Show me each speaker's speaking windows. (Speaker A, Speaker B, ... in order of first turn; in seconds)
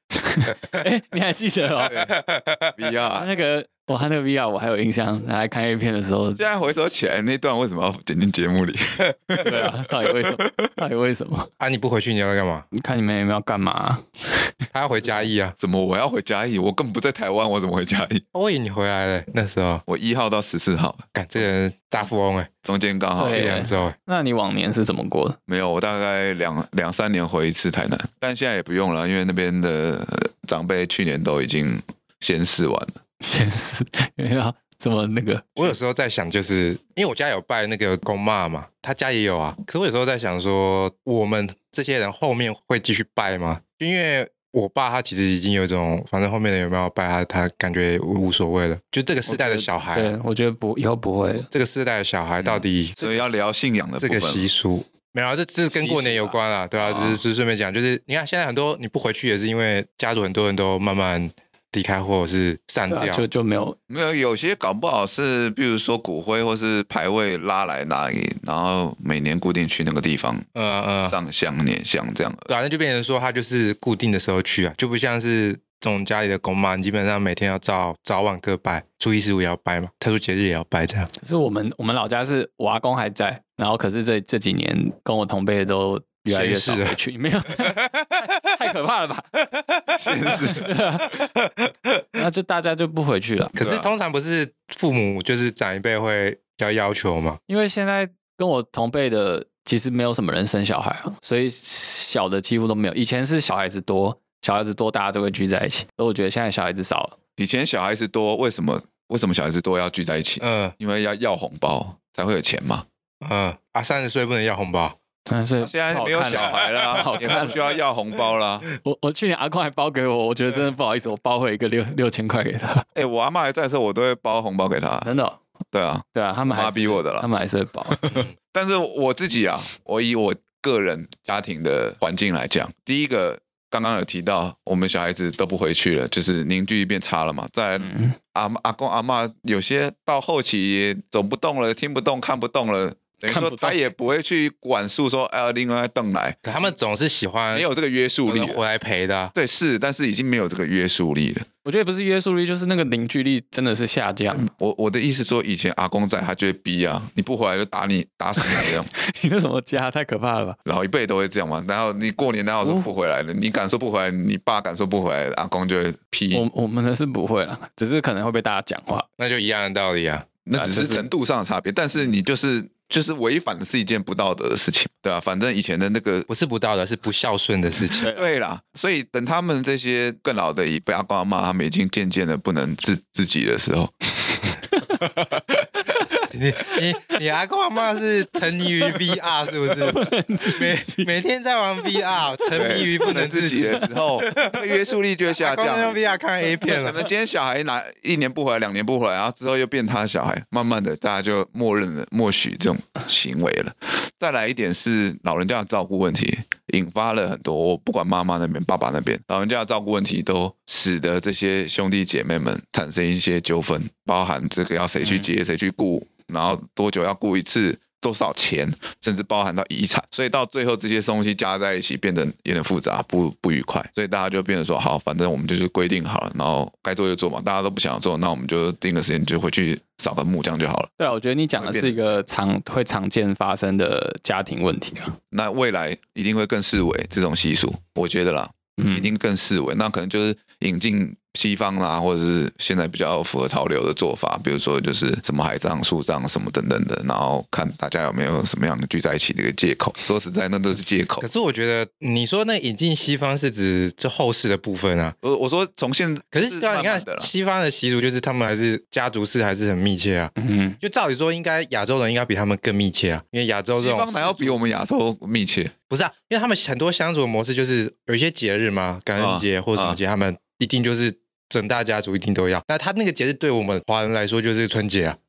Speaker A: 0.2-2.0, 3.1-6.4, 9.4-11.5, 12.7-14.5, 23.2-25.4, 33.2-35.7, 49.3-51.5, 55.7-56.4, 62.9-63.8, 81.2-89.3, 90.3-91.2, 92.2-93.6, 97.5-107.2, 115.3-117.6, 118.8-122.9, 125.0-125.4, 126.1-128.0, 137.8-138.2, 143.3-143.8, 151.6-154.5, 158.4-160.6, 162.6-162.9, 166.3-169.1, 170.6-171.1, 184.7-185.0, 189.8-191.1, 215.0-215.3, 231.0-235.2, 238.8-239.1, 260.4-260.8
Speaker B: 1.8-2.2, 2.8-3.3, 6.4-10.7, 15.6-18.2, 19.9-21.4, 22.6-23.6, 25.5-33.0, 52.4-54.5, 56.8-57.2, 63.9-70.5, 71.0-72.5, 90.0-90.7, 93.6-93.9, 107.4-112.8, 115.6-118.7, 123.0-125.1, 125.7-127.3, 127.9-146.7, 147.5-148.6, 149.3-151.5, 154.3-158.9, 160.7-166.4, 170.4-176.3, 178.1-184.1, 192.5-196.0, 196.7-230.9, 231.6-232.2, 235.3-251.3, 255.2-257.3, 263.8-265.7, 269.2-270.0
Speaker C: 1.9-2.7, 11.6-12.7, 14.7-15.5, 18.3-19.8, 21.1-22.5, 23.2-23.9, 35.6-50.1, 51.5-53.0, 54.0-63.2, 70.5-71.2, 72.5-81.1, 86.3-87.0, 87.6-88.0, 91.5-92.0, 93.6-97.4, 110.4-110.7, 113.2-115.0, 146.4-147.7, 148.3-149.3, 169.2-170.3, 176.3-178.1, 186.3-194.6, 195.4-197.0, 251.2-255.2, 256.3-264.6, 265.9-275.2